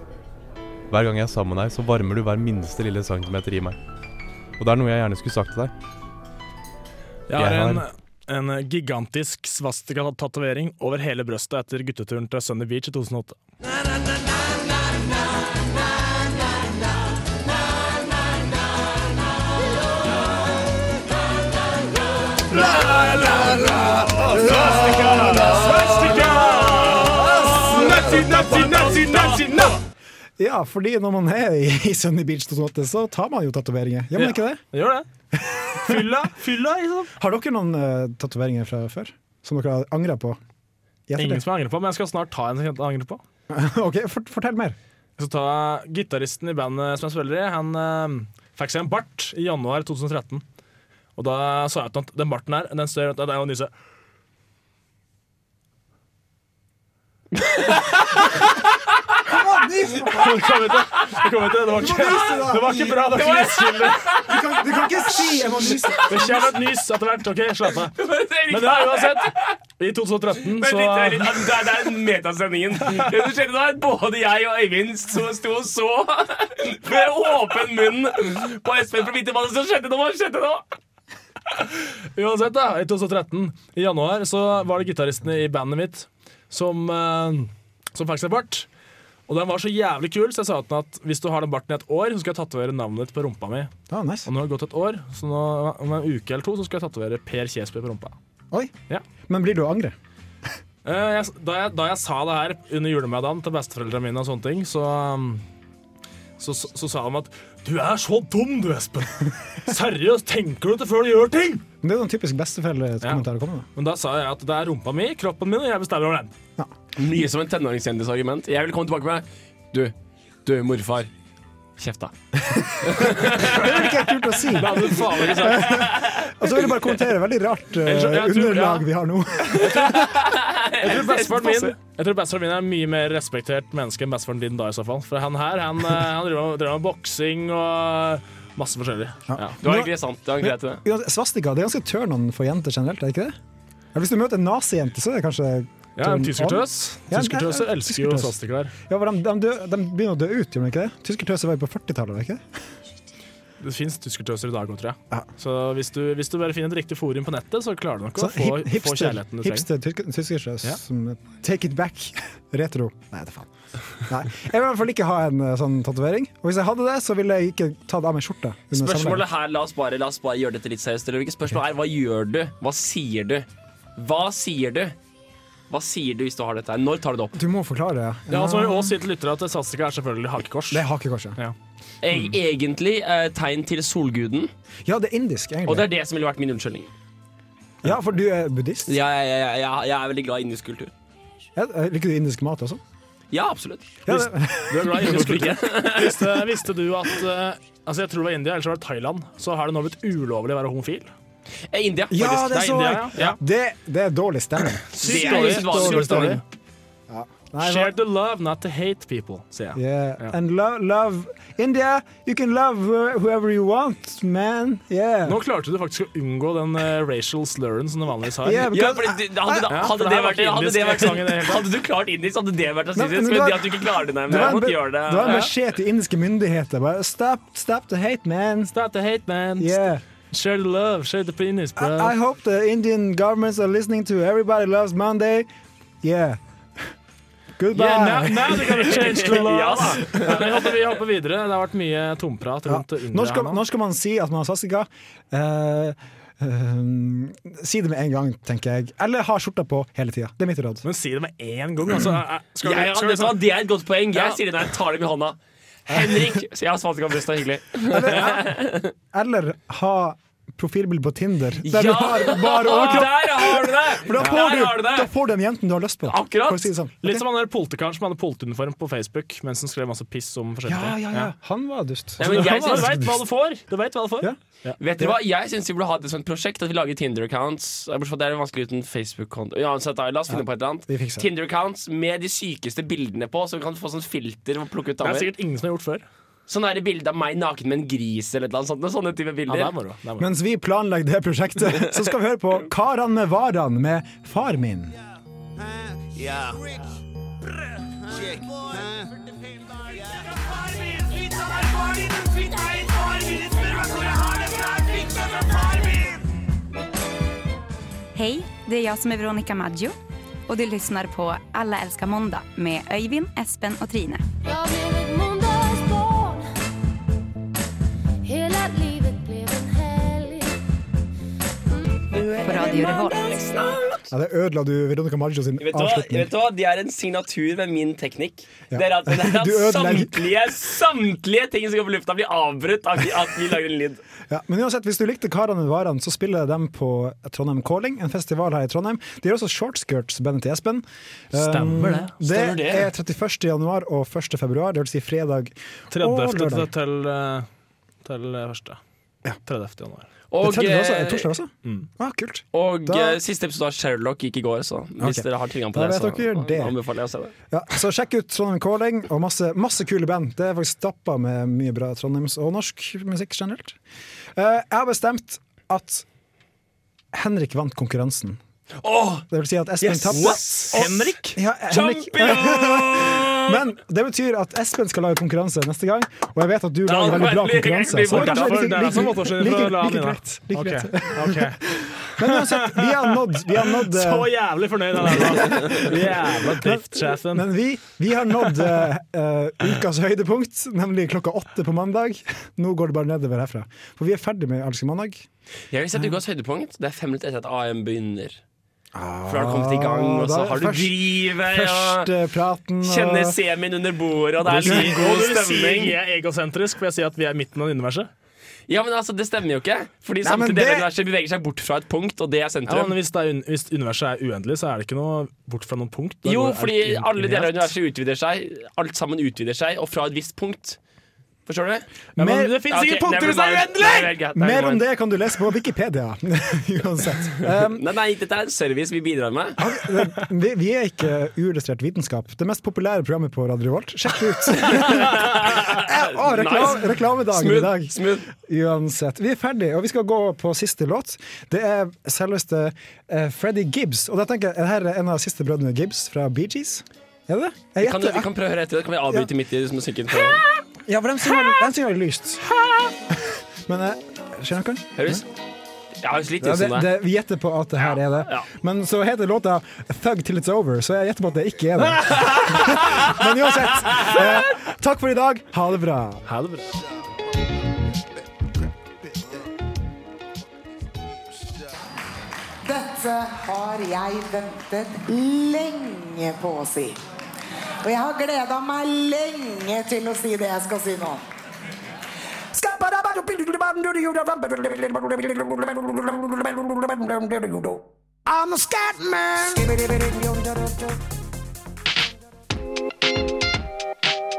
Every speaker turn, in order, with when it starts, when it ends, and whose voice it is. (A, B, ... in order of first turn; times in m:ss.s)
0:00.9-0:03.8 A
0:04.6-0:05.7 A
0:07.3-0:13.4 B
0:07.4-0:07.8 A
0:22.6-0:23.7 C
0:24.2-0:25.6 D
0:24.3-0:29.8 B
0:24.4-0:25.4 C
0:26.4-0:29.3 C
0:27.2-0:28.4 D
0:30.4-0:34.6 D
0:34.2-0:35.0 B
0:35.3-0:36.1 D
0:35.8-0:37.1 B
0:37.2-0:40.4 D
0:41.1-0:41.4 D
0:41.2-0:43.2 B
0:43.5-0:44.8 D
0:45.2-0:50.4 B
0:51.2-0:53.7 B
0:57.4-0:58.2 C
0:59.2-1:00.5 D
1:00.2-1:04.1 B
1:01.7-1:02.9 D
1:02.9-1:06.4 C
1:04.2-1:06.4 D
1:06.1-1:07.9 B
1:07.9-1:09.5 C
1:08.5-1:11.6 B
1:10.6-1:20.6 C
1:21.5-1:28.7 B
1:29.3-1:33.7 B
1:33.9-1:34.3 D
1:34.3-1:38.1 B
1:39.2-1:39.9 D
1:40.8-1:45.4 B
1:46.4-1:51.6 B
1:51.8-1:53.7 D
1:53.8-1:56.3 B
1:57.0-1:59.9 C
2:00.4-2:01.1 C
2:01.8-2:02.1 C
2:02.8-2:03.7 C
2:03.3-2:09.9 D
2:04.5-2:05.9 B
2:05.2-2:06.6 C
2:07.8-2:08.8 B
2:09.5-2:11.8 C
2:10.8-2:19.6 B
2:19.3-2:19.9 D
2:19.6-2:20.8 C
2:20.4-2:23.4 D
2:23.9-2:32.4 D
2:26.0-2:28.7 B
2:33.6-2:39.6 B
2:38.2-2:43.5 D
2:44.0-2:49.3 D
2:48.7-2:53.4 C
2:54.0-2:54.9 C
2:55.7-2:57.3 C
2:57.3-2:59.0 D
2:58.3-3:00.8 B
3:00.7-3:01.4 D
3:02.0-3:04.5 C
3:04.8-3:05.9 D
3:05.6-3:06.9 C
3:07.8-3:08.9 D
3:08.9-3:10.9 C
3:11.6-3:12.8 D
3:13.3-3:14.0 C
3:14.1-3:15.2 D
3:14.1-3:21.1 B
3:15.0-3:16.4 C
3:21.7-3:22.6 C
3:22.1-3:26.4 D
3:22.5-3:23.4 B
3:24.9-3:26.4 B
3:25.0-3:26.4 C
3:27.1-3:28.0 D
3:27.6-3:30.3 B
3:29.7-3:35.4 D
3:35.2-3:38.7 B
3:38.4-3:39.8 D
3:38.5-3:45.5 C
3:39.7-3:41.7 B
3:42.9-3:48.7 D
3:48.7-3:52.1 B
3:49.6-3:50.0 D
3:51.8-3:55.5 D
3:56.0-3:56.9 D
3:57.6-3:59.0 D
3:57.7-4:03.6 B
3:58.9-4:00.8 C
4:02.6-4:10.8 D
4:10.8-4:13.4 B
4:12.6-4:18.9 C
4:17.9-4:27.2 D
4:21.6-4:25.1 C
4:26.0-4:26.7 C
4:27.0-4:31.3 B
4:30.6-4:33.2 D
4:32.2-4:33.0 C
4:32.2-4:34.8 B
4:34.8-4:45.3 C
4:40.3-4:41.3 D
4:45.0-4:46.0 B
4:46.5-4:49.7 C
4:49.5-4:50.3 B
4:50.2-4:54.9 D
5:01.5-5:06.0 E
5:08.1-5:10.0 F
5:10.5-5:14.2 F
5:14.4-5:16.5 E
5:18.2-5:20.5 E
5:21.7-5:23.4 E
5:22.4-5:23.2 F
5:22.8-5:24.0 C
5:24.1-5:26.3 D
5:25.6-5:34.0 C
5:28.7-5:30.3 D
5:34.3-5:46.7 D
5:41.3-5:42.2 B
5:42.3-5:42.8 C
5:45.9-5:47.5 B
5:48.0-5:48.8 B
5:49.4-5:50.1 B
5:50.3-5:51.3 C
5:50.4-5:53.2 D
5:52.5-5:57.3 C
5:55.0-5:56.8 D
5:57.5-6:03.8 D
6:04.4-6:06.0 D
6:07.1-6:08.4 D
6:08.8-6:09.3 C
6:09.3-6:24.3 D
6:09.8-6:11.1 C
6:10.1-6:11.4 B
6:11.7-6:13.6 C
6:16.8-6:18.6 C
6:18.0-6:27.5 B
6:24.9-6:35.2 D
6:35.7-6:38.4 C
6:38.9-6:43.4 D
6:39.3-6:42.1 C
6:42.8-6:46.0 C
6:44.4-6:48.1 B
6:44.5-6:45.0 D
6:48.7-6:52.9 C
6:50.2-6:50.9 D
6:52.7-6:57.7 B
6:56.2-7:00.8 C
7:01.4-7:01.9 C
7:02.2-7:02.6 D
7:02.2-7:04.1 B
7:02.7-7:04.8 C
7:04.4-7:07.8 D
7:07.6-7:09.6 C
7:09.6-7:28.3 D
7:15.2-7:18.3 C
7:27.8-7:30.5 C
7:30.8-7:32.4 D
7:33.1-7:35.2 D
7:35.0-7:35.3 C
7:36.0-7:37.0 C
7:36.4-7:46.2 D
7:37.8-7:38.5 C
7:46.3-7:46.7 B
7:52.6-7:56.9 G
7:57.8-8:01.2 G
8:02.6-8:10.7 G